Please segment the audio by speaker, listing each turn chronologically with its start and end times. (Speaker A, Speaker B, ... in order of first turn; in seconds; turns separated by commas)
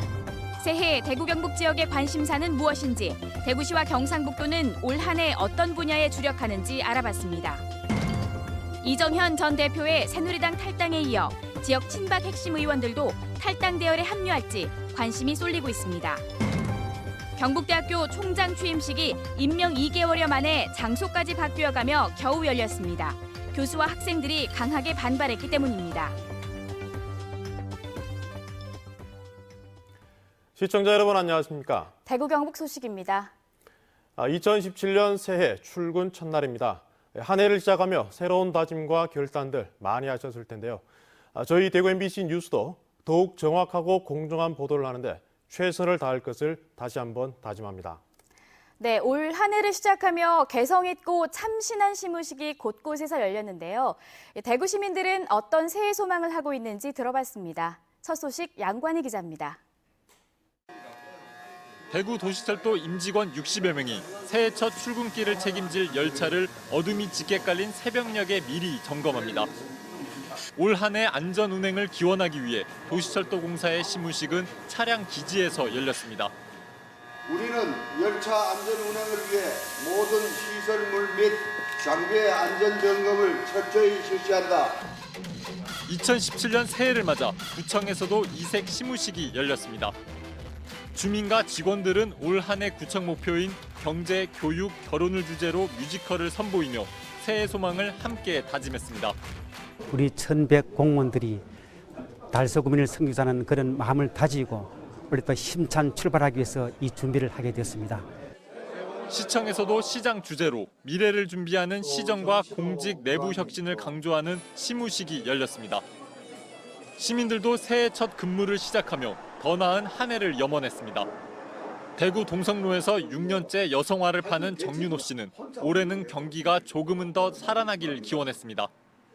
Speaker A: 0.6-7.6, Speaker A: 8.8-16.2, Speaker A: 17.4-26.2, Speaker B: 30.6-31.9, Speaker A: 32.1-33.3, Speaker B: 34.2-40.8, Speaker B: 41.4-48.0, Speaker A: 48.8-59.6, Speaker C: 61.9-69.5, Speaker C: 70.6-76.3, Speaker D: 77.3-84.8, Speaker C: 85.9-90.0, Speaker C: 90.9-99.2, Speaker E: 99.9-101.4, Speaker E: 102.3-108.0, Speaker C: 109.1-115.8, Speaker C: 117.0-121.1, Speaker C: 122.0-128.7